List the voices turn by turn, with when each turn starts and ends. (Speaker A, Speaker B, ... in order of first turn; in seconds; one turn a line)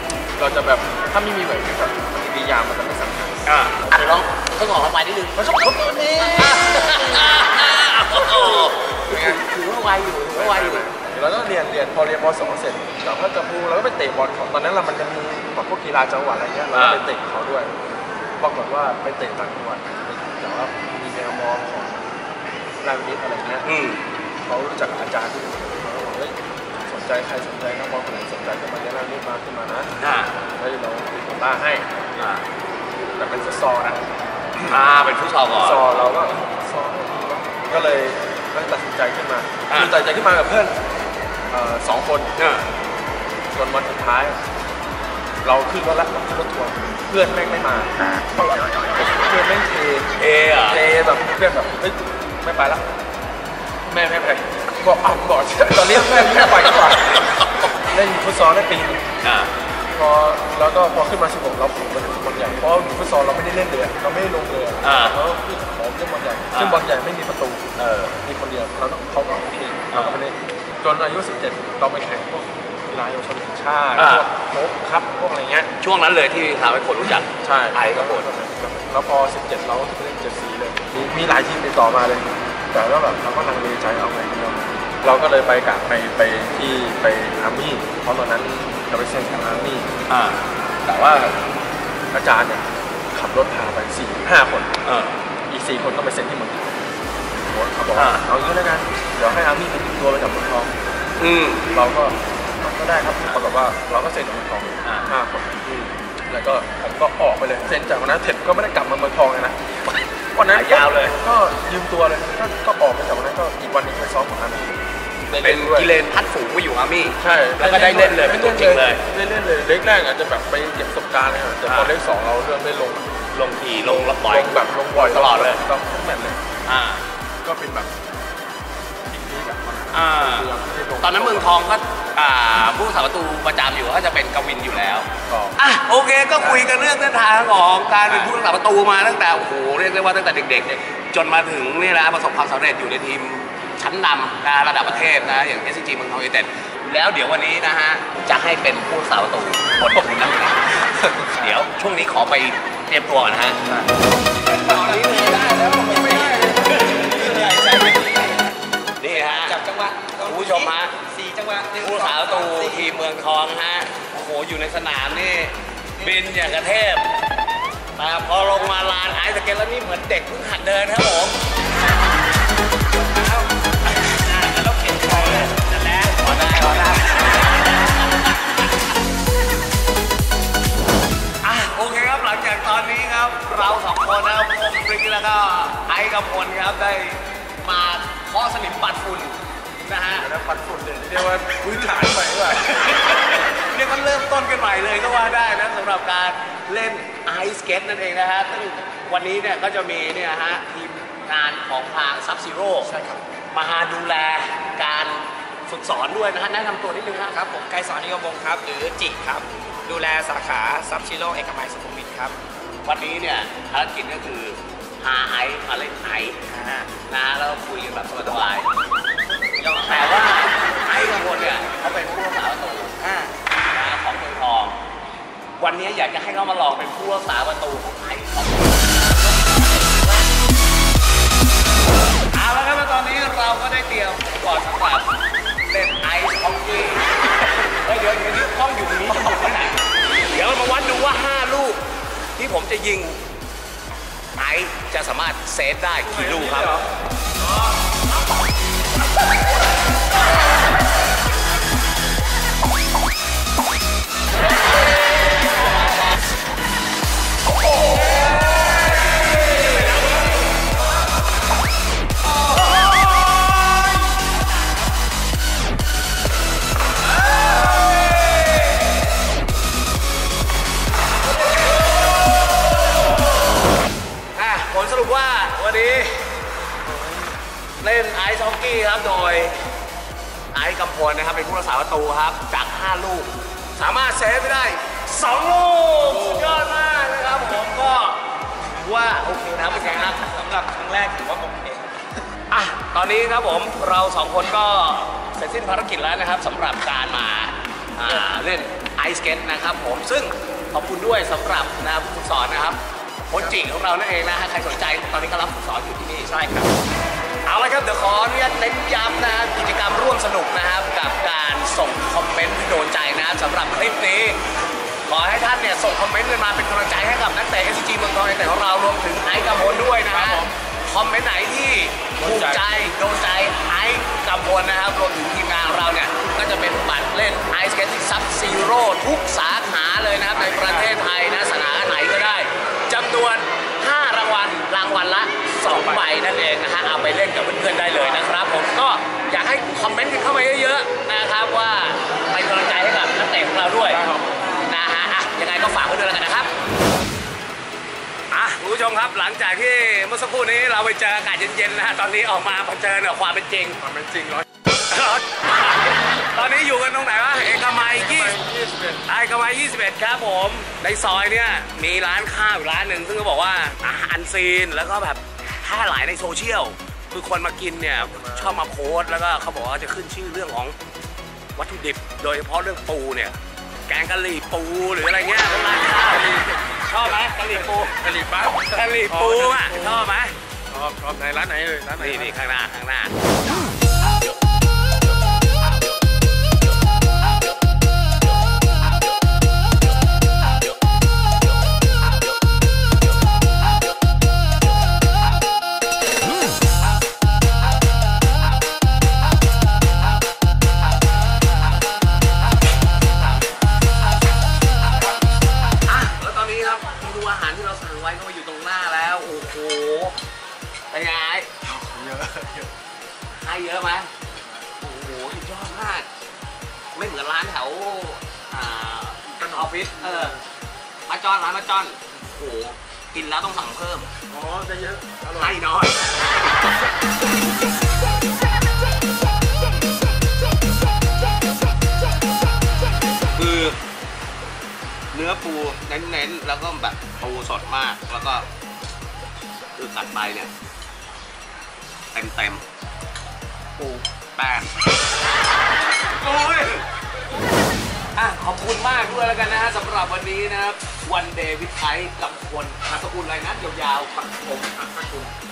Speaker A: 0.4-4.2
Speaker B: 3.5-10.9
Speaker A: 5.3-6.6
Speaker A: 9.1-9.4
Speaker A: 10.3-17.7
Speaker B: 16.7-17.0
Speaker A: 18.4-22.2
Speaker A: 22.8-23.7
Speaker B: 23.6-24.0
Speaker A: 24.4-29.9
Speaker B: 30.0-30.3
Speaker A: 30.6-31.9
Speaker B: 32.2-32.5
Speaker A: 33.2-34.8
Speaker B: 34.7-36.1
Speaker A: 35.6-40.8
Speaker B: 39.7-40.0
Speaker A: 41.5-42.3
Speaker B: 42.4-42.7
Speaker A: 43.5-44.4
Speaker A: 45.4-50.1
Speaker B: 50.2-50.8
Speaker A: 50.7-52.8
Speaker A: 53.9-57.2
Speaker B: 55.9-57.7
Speaker A: 57.9-59.0
Speaker B: 59.2-59.5
Speaker A: 59.9-75.7
Speaker B: 64.8-65.2
Speaker B: 66.5-66.8
Speaker B: 67.8-68.2
Speaker B: 69.9-70.2
Speaker B: 74.0-74.3
Speaker B: 75.8-78.2
Speaker A: 77.4-89.9
Speaker B: 90.1-90.4
Speaker A: 90.8-91.4
Speaker A: 92.1-94.7
Speaker B: 94.8-95.2
Speaker A: 95.5-100.8
Speaker B: 98.0-98.3
Speaker B: 101.2-101.7
Speaker A: 101.7-109.6
Speaker B: 104.8-105.1
Speaker A: 110.3-115.9
Speaker B: 110.5-111.2
Speaker B: 115.4-119.0
Speaker A: 117.2-123.1
Speaker B: 121.7-121.9
Speaker B: 123.3-125.6
Speaker A: 123.8-126.4
Speaker B: 126.7-127.0
Speaker A: 127.4-127.9
Speaker A: 129.1-131.7
Speaker B: 129.9-153.6
Speaker A: 135.3-135.6
Speaker A: 136.4-136.7
Speaker A: 151.0-151.5
Speaker B: 154.5-158.4
Speaker C: 154.6-156.7
Speaker B: 159.0-159.6
Speaker C: 159.1-162.9
Speaker B: 160.2-160.9
Speaker B: 161.8-167.1
Speaker B: 167.9-171.4
Speaker B: 173.1-178.6
Speaker B: 181.4-190.3
Speaker A: 190.2-192.8
Speaker B: 191.5-202.9
Speaker C: 202.8-203.2
Speaker B: 203.5-207.4
Speaker C: 207.3-212.4
Speaker B: 212.8-216.4
Speaker C: 216.4-216.9
Speaker B: 217.1-218.7
Speaker C: 219.6-220.1
Speaker B: 219.8-223.1
Speaker C: 223.0-223.3
Speaker B: 223.7-224.8
Speaker B: 225.6-230.3
Speaker B: 232.3-235.1
Speaker B: 235.7-241.8
Speaker B: 242.4-243.2
Speaker B: 244.3-246.9
Speaker B: 274.3-276.3
Speaker A: 276.8-277.3
Speaker B: 277.8-279.6
Speaker B: 280.5-290.4
Speaker A: 286.3-286.7
Speaker C: 289.6-292.2
Speaker B: 292.5-306.3
Speaker C: 306.3-306.7
Speaker B: 307.4-314.4
Speaker B: 315.1-346.5
Speaker A: 319.4-320.5
Speaker A: 322.2-322.7
Speaker A: 330.3-330.9
Speaker A: 335.7-336.0
Speaker A: 343.8-344.5
Speaker B: 348.3-353.8
Speaker A: 353.8-354.4
Speaker B: 354.8-358.4
Speaker A: 357.9-359.0
Speaker B: 359.1-370.8
Speaker A: 368.1-368.6
Speaker B: 371.5-376.2
Speaker A: 375.9-379.9
Speaker B: 376.8-378.0
Speaker B: 378.6-380.4
Speaker A: 380.7-382.4
Speaker B: 382.0-383.2
Speaker B: 405.8-410.1
Speaker B: 410.9-411.5
Speaker A: 411.6-412.7
Speaker B: 413.3-414.1
Speaker A: 414.3-414.6
Speaker B: 414.8-416.1
Speaker B: 416.9-420.4
Speaker A: 419.4-420.3
Speaker B: 421.1-424.1
Speaker A: 424.3-425.6
Speaker B: 425.3-426.0
Speaker B: 433.3-433.8
Speaker B: 435.1-438.4
Speaker B: 439.8-440.5
Speaker B: 442.1-442.6
Speaker B: 443.8-444.7
Speaker B: 446.1-446.9
Speaker B: 448.1-454.9
Speaker A: 454.9-455.3